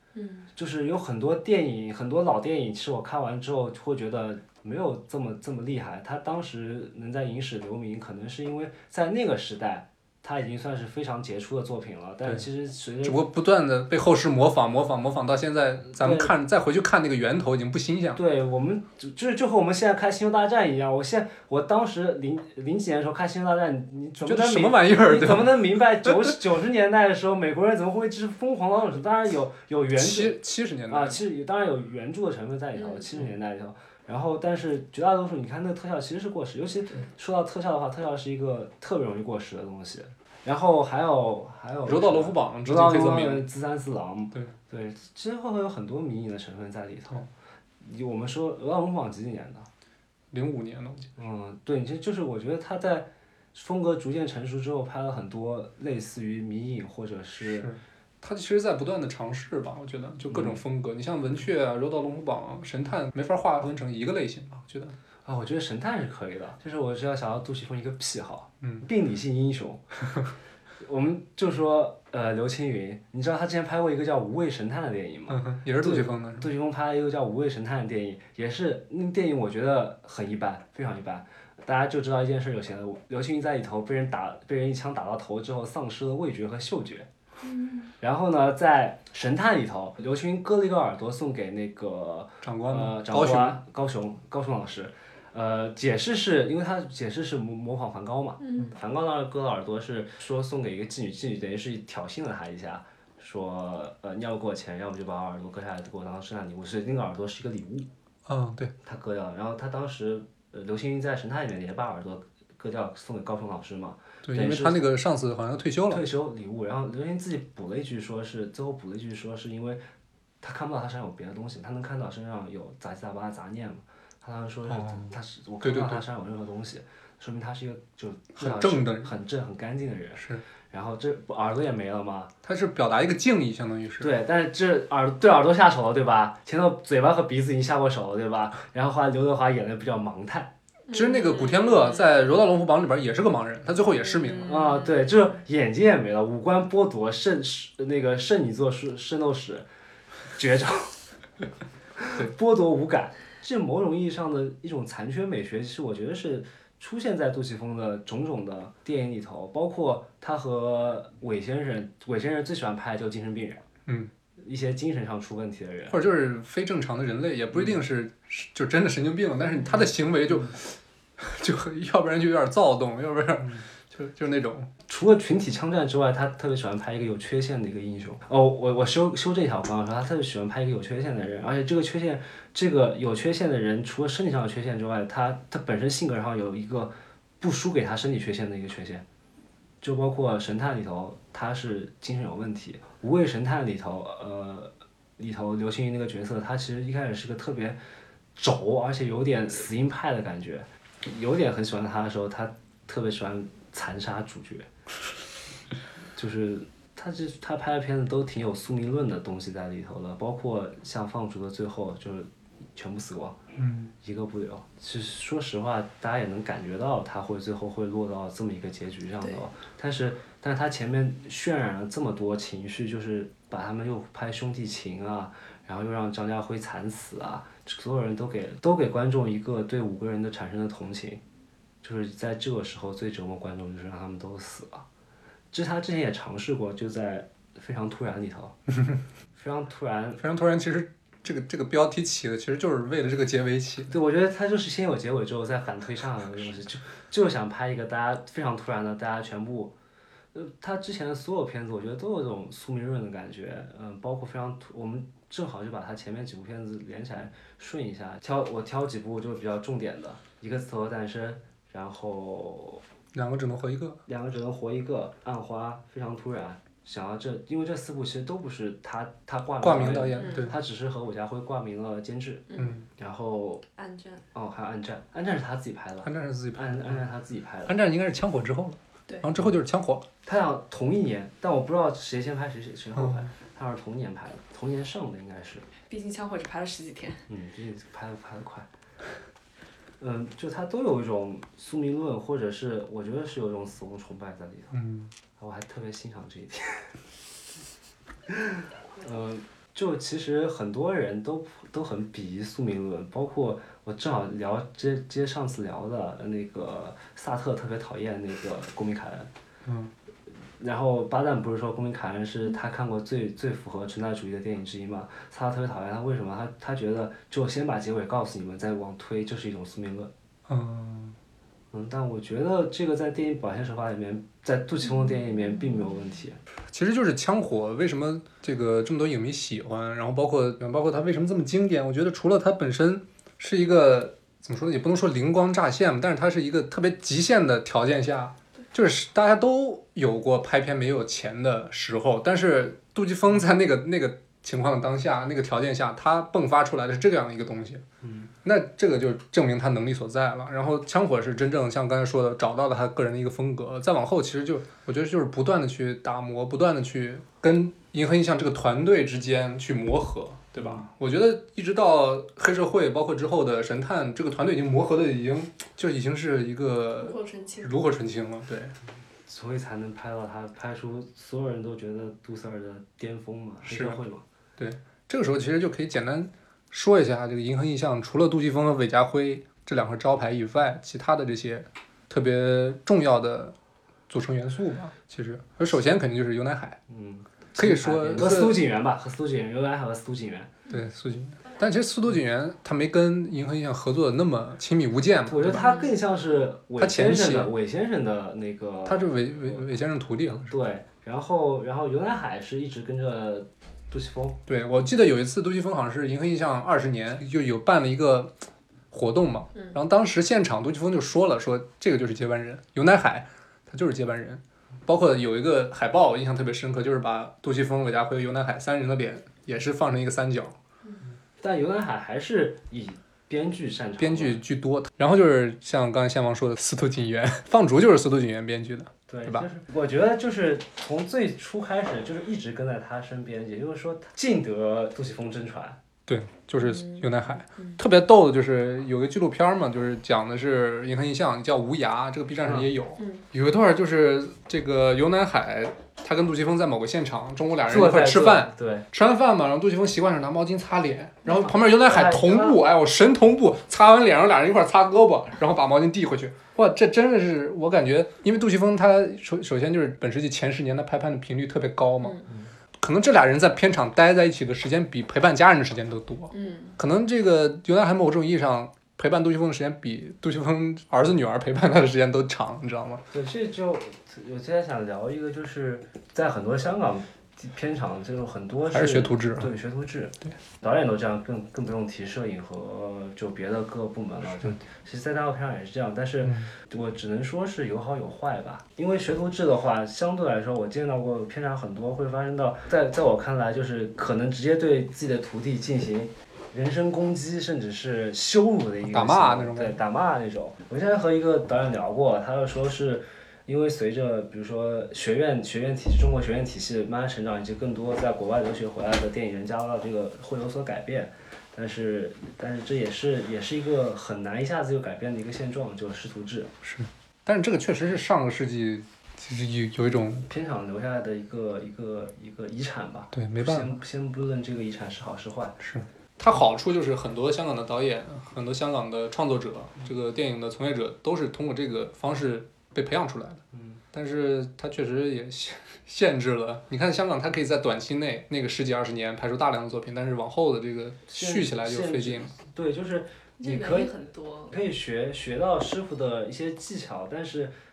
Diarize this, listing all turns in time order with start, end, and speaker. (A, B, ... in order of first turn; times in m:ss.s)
0:00.1-0:00.5 A
0:00.5-0:13.2 B
0:13.0-0:18.2 C
0:15.9-0:16.3 B
0:18.2-0:49.7 B
0:24.2-0:26.3 C
0:30.0-0:31.2 C
0:32.8-0:33.0 A
0:41.8-0:43.5 C
0:50.3-0:51.1 C
0:51.2-0:57.7 B
0:57.4-1:05.0 C
1:00.3-1:00.6 B
1:05.2-1:09.8 B
1:08.6-1:08.8 C
1:10.8-1:27.1 B
1:15.3-1:16.5 C
1:27.4-1:27.9 A
1:28.0-1:47.9 B
1:32.4-1:33.6 C
1:38.4-1:38.7 A
1:48.2-1:48.7 C
1:48.8-1:54.9 B
1:54.2-1:56.0 C
1:55.9-1:59.8 B
2:00.4-2:12.3 B
2:04.7-2:06.0 C
2:08.4-2:09.1 C
2:10.2-2:10.4 C
2:12.4-2:14.1 C
2:14.0-2:20.5 B
2:20.9-2:22.1 A
2:20.9-2:24.6 C
2:24.1-2:25.1 A
2:24.4-2:29.7 B
2:30.3-2:31.0 B
2:32.0-2:43.6 B
2:44.4-2:46.0 B
2:45.9-2:54.7 C
2:54.9-3:09.0 B
3:09.8-3:17.8 B
3:18.4-3:24.7 B
3:26.2-3:33.4 B
3:33.6-3:33.9 C
3:34.0-3:51.2 B
3:51.8-3:54.8 B
3:55.5-3:58.6 B
3:59.4-4:00.2 B
4:00.2-4:03.9 C
4:03.9-4:09.7 B
4:10.3-4:22.8 B
4:23.1-4:24.0 C
4:24.1-4:33.6 B
4:29.6-4:30.5 C
4:30.2-4:30.5 A
4:32.6-4:32.9 C
4:33.8-4:34.2 A
4:34.3-4:37.8 B
4:36.0-4:37.0 C
4:37.7-4:40.1 C
4:40.2-4:45.7 B
4:43.0-4:43.3 C
4:45.9-4:47.2 A
4:47.3-4:48.7 B
4:50.0-4:54.8 B
4:54.7-4:55.1 C
4:55.4-4:56.9 B
4:58.3-5:09.3 B
5:09.6-5:09.9 C
5:10.6-5:20.1 B
5:20.5-5:21.2 C
5:21.7-5:26.4 B
5:26.7-5:47.8 C
5:48.0-5:48.3 B
5:48.4-6:08.7 C
6:00.6-6:00.8 B
6:07.0-6:07.7 A
6:09.3-6:14.2 B
6:13.6-6:14.0 C
6:14.6-6:23.5 C
6:24.1-6:26.8 C
6:26.9-6:30.5 B
6:27.6-6:28.6 C
6:30.7-6:35.7 C
6:35.3-6:39.2 B
6:35.5-6:35.9 A
6:36.8-6:37.5 C
6:38.8-6:40.5 C
6:40.3-6:44.4 B
6:44.5-6:48.3 C
6:48.9-7:00.6 C
7:01.4-7:04.4 B
7:04.0-7:09.5 C
7:09.1-7:15.8 B
7:16.1-7:42.2 C
7:16.6-7:17.8 A
7:22.4-7:22.7 B
7:23.0-7:23.2 A
7:27.7-7:28.8 B
7:31.7-7:32.6 B
7:42.8-7:53.0 C
7:46.3-7:46.8 A
7:53.1-8:36.5 B
7:58.7-7:59.5 C
8:06.2-8:06.5 C
8:18.8-8:19.8 C
8:36.6-8:40.3 C
8:40.3-8:45.6 B
8:43.1-8:43.8 C
8:45.6-8:53.4 C
8:53.5-8:53.8 B
8:53.9-9:02.3 C
9:01.1-9:03.9 B
9:03.4-9:04.5 A
9:04.5-9:07.5 B